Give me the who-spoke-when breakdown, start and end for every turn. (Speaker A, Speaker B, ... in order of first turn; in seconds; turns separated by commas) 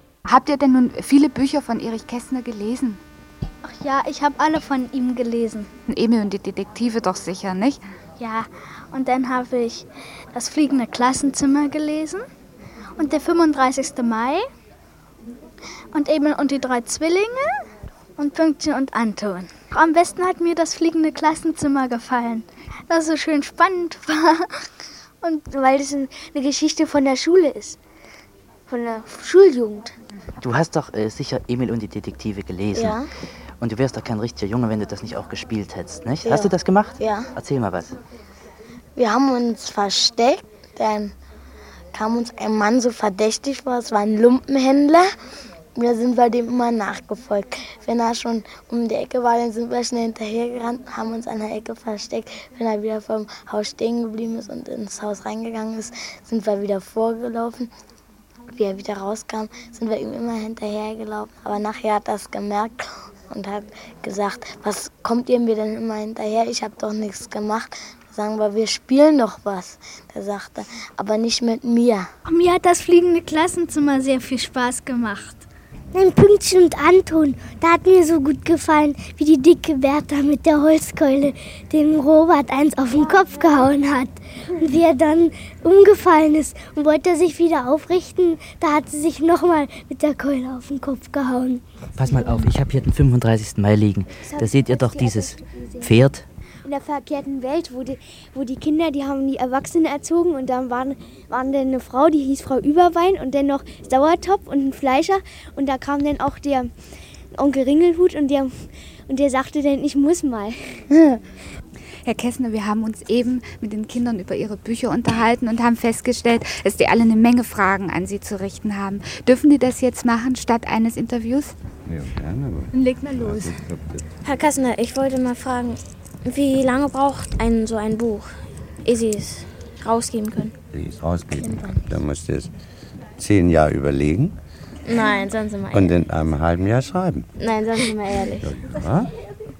Speaker A: 0.3-3.0, Speaker B: 3.6-5.7, Speaker A: 5.9-7.8, Speaker B: 8.2-12.3, Speaker B: 13.0-14.5, Speaker B: 15.9-17.7, Speaker B: 18.2-24.6, Speaker B: 25.2-27.3, Speaker C: 25.6-27.8, Speaker C: 28.7-29.9, Speaker D: 30.4-33.0, Speaker E: 32.7-33.1, Speaker D: 33.6-38.0, Speaker E: 36.2-37.3, Speaker E: 39.0-41.1, Speaker E: 41.9-45.1, Speaker E: 45.8-57.7, Speaker E: 58.5-72.1, Speaker B: 72.3-75.5, Speaker C: 75.9-91.6, Speaker D: 92.0-96.3, Speaker C: 94.2-96.0, Speaker C: 96.7-106.7, Speaker C: 107.3-110.8, Speaker A: 112.0-121.5, Speaker F: 121.8-124.1, Speaker G: 124.2-130.5, Speaker F: 130.7-132.5, Speaker E: 131.4-131.9, Speaker F: 133.2-134.4, Speaker G: 134.8-135.9, Speaker F: 135.7-137.3, Speaker G: 137.4-138.5, Speaker F: 138.4-139.1